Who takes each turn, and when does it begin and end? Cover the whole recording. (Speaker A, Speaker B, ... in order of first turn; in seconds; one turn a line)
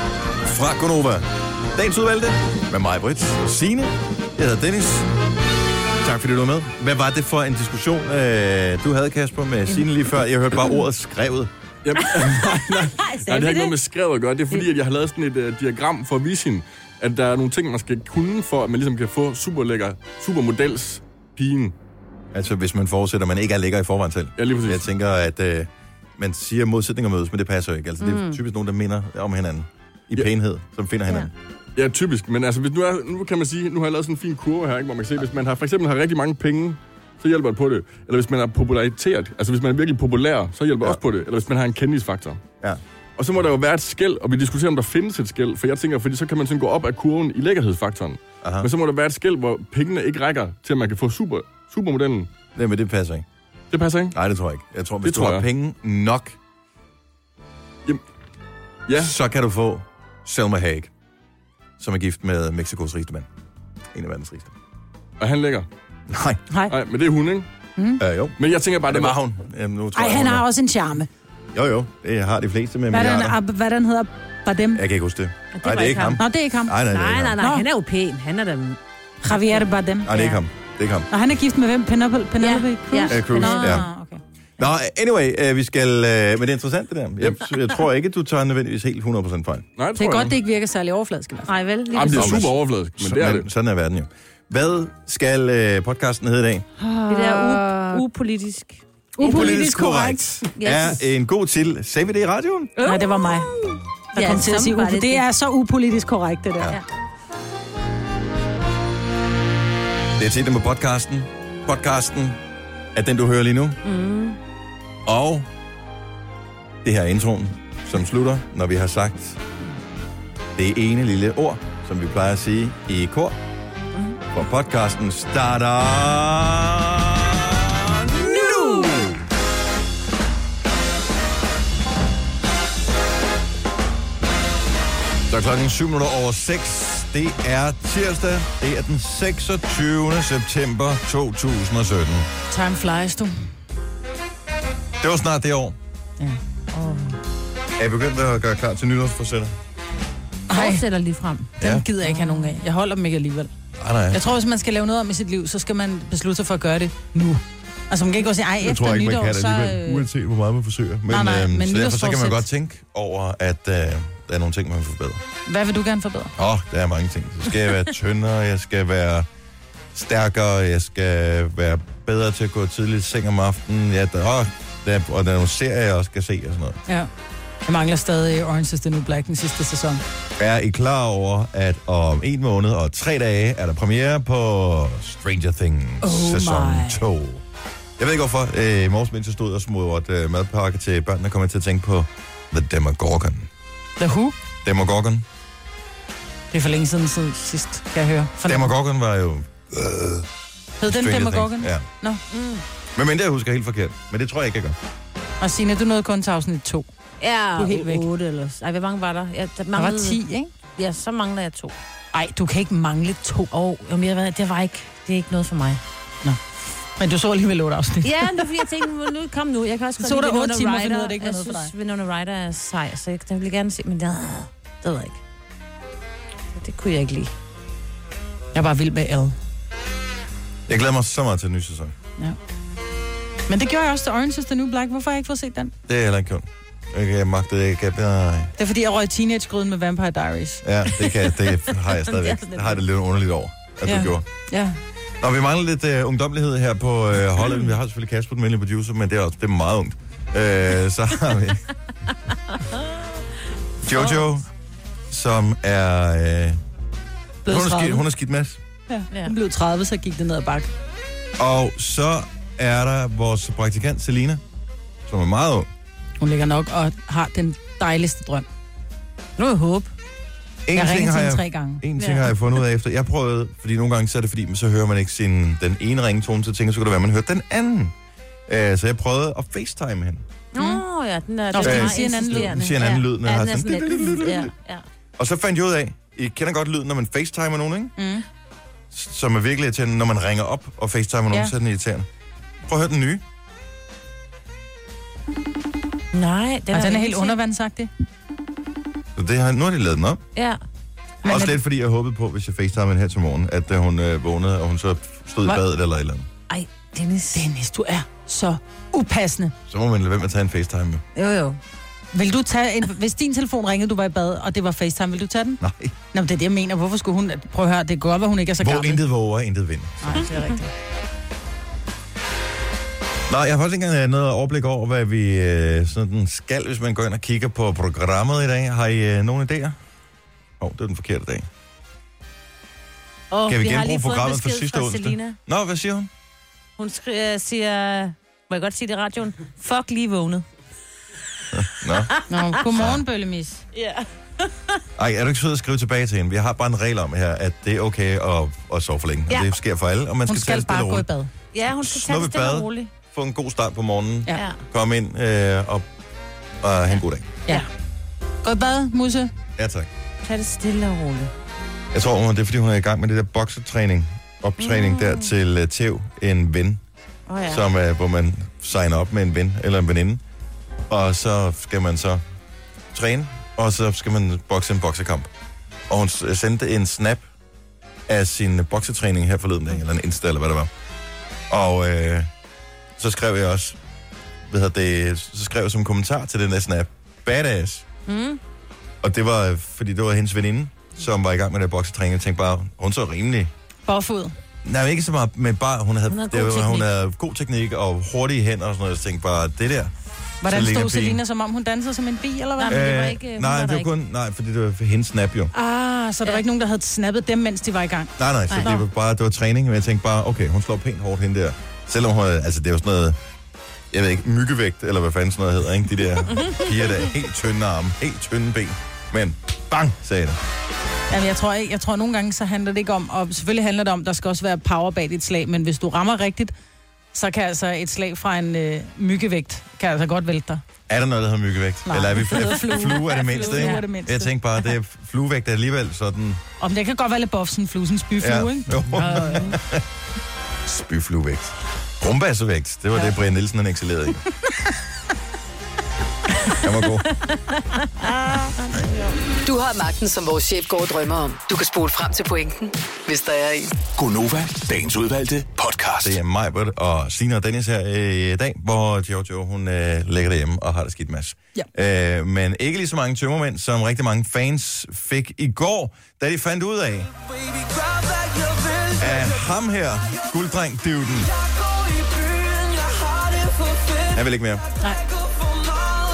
Speaker A: 0.4-5.1
Speaker A: 6.0-11.5
Speaker B: 11.8-21.7
Speaker C: 12.8-13.8
Speaker A: 22.3-31.3
Speaker B: 24.4-24.8
Speaker C: 28.0-28.4
Speaker B: 31.8-42.4
Speaker B: 43.2-52.3
Speaker A: 48.4-48.7
Speaker A: 52.5-53.2
Speaker B: 53.7-54.1
Speaker A: 54.1-56.4
Speaker B: 55.0-55.5
Speaker B: 58.9-59.1
Speaker A: 59.0-60.9
Speaker A: 61.8-63.3
Speaker A: 63.9-64.5
Speaker B: 65.2-65.7
Speaker A: 66.1-66.4
Speaker B: 66.7-67.5
Speaker A: 68.0-70.4
Speaker B: 68.4-69.2
Speaker D: 69.9-71.1
Speaker A: 71.5-73.3
Speaker D: 72.9-74.8
Speaker A: 74.7-77.4
Speaker C: 75.5-76.2
Speaker D: 76.2-76.8
Speaker C: 76.9-79.6
Speaker D: 77.4-77.7
Speaker D: 79.2-80.4
Speaker A: 80.0-81.1
Speaker D: 81.1-84.2
Speaker C: 82.4-83.8
Speaker A: 83.1-83.9
Speaker A: 84.6-89.7
Speaker B: 89.8-90.3
Speaker D: 90.0-91.5
Speaker C: 91.5-92.5
Speaker B: 91.9-93.5
Speaker A: 92.1-96.7
Speaker D: 96.8-98.0
Speaker C: 97.1-99.5
Speaker D: 99.2-100.5
Speaker A: 99.2-102.7
Speaker C: 100.6-101.0
Speaker C: 102.8-105.2
Speaker D: 102.8-103.5
Speaker D: 104.1-106.8
Speaker A: 110.2-112.4
Speaker A: 112.9-113.8
Speaker C: 113.8-114.4
Speaker A: 115.0-115.5
Speaker A: 116.8-119.4
Speaker A: 120.5-123.4
Speaker A: 124.3-129.2
Speaker C: 128.4-129.0
Speaker A: 135.3-142.3
Speaker D: 142.5-143.5
Speaker A: 145.0-145.8
Speaker C: 146.7-147.2
Speaker A: 147.8-149.5
Speaker D: 150.5-150.8
Speaker C: 150.5-152.6
Speaker D: 151.6-153.5
Speaker A: 153.8-154.2
Speaker D: 154.1-159.5
Speaker A: 158.6-165.2
Speaker C: 159.4-160.1
Speaker D: 161.1-162.4
Speaker D: 165.4-166.3
Speaker A: 166.4-169.3
Speaker A: 169.9-176.8
Speaker D: 177.7-180.0
Speaker A: 180.4-187.4
Speaker D: 186.0-187.0
Speaker A: 188.0-193.5
Speaker D: 194.0-194.3
Speaker A: 194.6-195.2
Speaker D: 196.5-198.7
Speaker A: 198.5-200.3
Speaker D: 200.8-202.2
Speaker A: 200.8-201.8
Speaker C: 202.3-202.6
Speaker A: 202.9-204.8
Speaker D: 205.4-206.9
Speaker C: 207.2-210.2
Speaker D: 207.5-208.1
Speaker D: 209.7-210.5
Speaker C: 210.8-211.8
Speaker D: 212.1-213.5
Speaker C: 213.5-215.8
Speaker D: 217.0-218.6
Speaker C: 218.0-225.2
Speaker D: 220.0-221.7
Speaker C: 226.5-227.3
Speaker D: 228.5-229.3
Speaker A: 230.7-231.9
Speaker D: 233.5-235.7
Speaker A: 235.9-238.5
Speaker D: 238.6-240.6
Speaker A: 240.6-244.2
Speaker C: 241.0-242.8
Speaker D: 243.8-244.8
Speaker A: 245.2-251.6
Speaker C: 252.5-252.9
Speaker A: 253.8-254.5
Speaker A: 255.1-256.6
Speaker D: 257.4-258.0
Speaker A: 257.4-258.6
Speaker D: 258.9-260.7
Speaker A: 261.4-264.4
Speaker A: 265.1-265.7
Speaker D: 266.2-268.4
Speaker D: 269.4-269.9
Speaker A: 270.6-277.9
Speaker D: 270.7-271.8
Speaker C: 272.0-272.3
Speaker A: 278.5-280.2
Speaker C: 280.5-284.8
Speaker D: 280.6-280.8
Speaker D: 281.5-282.5
Speaker A: 281.6-284.5
Speaker A: 285.2-287.9
Speaker D: 288.0-288.2
Speaker A: 288.9-292.1
Speaker A: 292.6-293.2
Speaker C: 296.1-297.4
Speaker D: 296.7-297.9
Speaker A: 299.1-300.2
Speaker C: 300.3-300.6
Speaker A: 301.2-306.3
Speaker D: 301.2-301.6
Speaker C: 306.5-307.4
Speaker D: 307.3-309.5
Speaker A: 309.7-311.0
Speaker C: 311.1-311.6
Speaker D: 312.1-315.6
Speaker A: 315.6-315.9
Speaker D: 316.1-319.0
Speaker A: 318.6-320.2
Speaker D: 320.0-320.7
Speaker A: 323.3-329.8
Speaker A: 330.6-331.5
Speaker C: 333.3-335.4
Speaker A: 333.5-336.1
Speaker C: 336.8-340.4
Speaker A: 341.5-342.1
Speaker C: 341.8-342.9
Speaker D: 342.3-343.6
Speaker A: 342.7-343.0
Speaker C: 343.7-344.8
Speaker A: 344.9-351.1
Speaker D: 350.3-351.3
Speaker C: 351.5-352.9
Speaker A: 351.6-355.8
Speaker C: 354.3-354.6
Speaker A: 356.6-357.3
Speaker D: 358.4-359.3
Speaker A: 359.6-359.9
Speaker C: 360.2-361.3
Speaker A: 361.9-366.8
Speaker C: 364.6-365.3
Speaker C: 367.3-367.6
Speaker A: 367.4-370.2
Speaker A: 370.9-372.2
Speaker A: 372.9-375.3
Speaker A: 375.9-377.2
Speaker A: 378.1-380.7
Speaker A: 381.5-382.3
Speaker A: 383.0-383.8
Speaker A: 384.5-387.9
Speaker C: 388.1-388.4
Speaker A: 389.0-393.5
Speaker D: 393.9-394.3
Speaker A: 394.6-399.9
Speaker C: 396.1-396.9
Speaker D: 400.4-402.8
Speaker A: 400.4-401.2
Speaker C: 402.6-403.9
Speaker A: 402.6-405.5
Speaker D: 405.5-408.1
Speaker A: 408.2-413.2
Speaker C: 408.5-408.8
Speaker A: 413.9-420.4
Speaker C: 416.3-416.6
Speaker D: 421.1-426.5
Speaker D: 427.1-430.6
Speaker A: 430.9-436.4
Speaker D: 431.9-434.3
Speaker C: 433.3-433.8
Speaker D: 436.6-439.6
Speaker A: 438.2-439.8
Speaker A: 440.6-444.2
Speaker A: 446.6-447.1
Speaker C: 447.4-449.1
Speaker E: 449.4-453.8
Speaker F: 453.9-456.2
Speaker A: 456.0-467.1
Speaker A: 468.9-471.3
Speaker A: 474.0-474.6